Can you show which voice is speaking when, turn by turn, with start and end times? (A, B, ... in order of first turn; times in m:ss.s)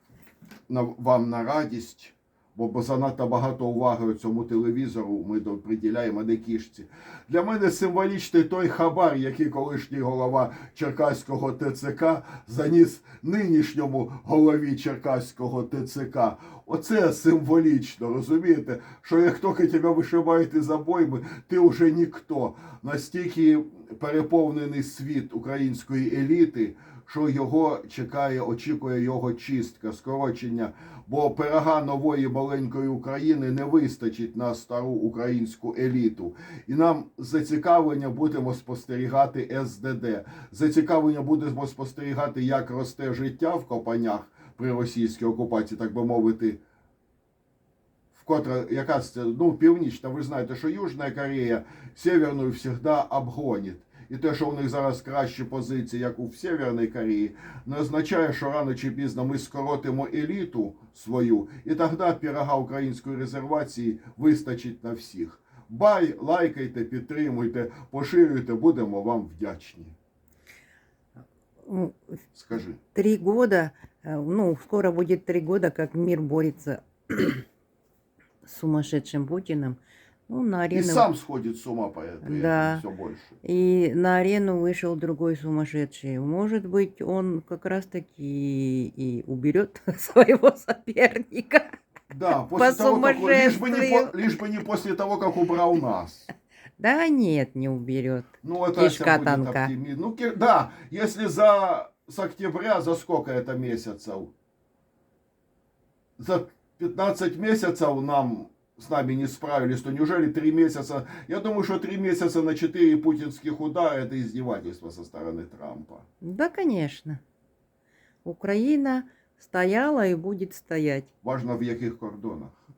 0:00.7-0:46.6 A
0:48.1-1:09.9 A
1:11.6-1:12.0 B
1:12.3-1:12.8 A
1:12.9-1:17.4 B
1:18.4-1:21.1 B
1:20.7-1:23.4 A
1:22.2-1:22.8 B
1:23.4-1:31.7 B
1:32.1-1:36.3 A
1:32.5-1:34.2 B
1:36.8-1:39.7 B
1:38.4-1:44.3 A
1:46.2-1:56.0 A
1:56.2-1:57.2 B
1:58.2-2:01.1 B
2:01.2-2:02.5 A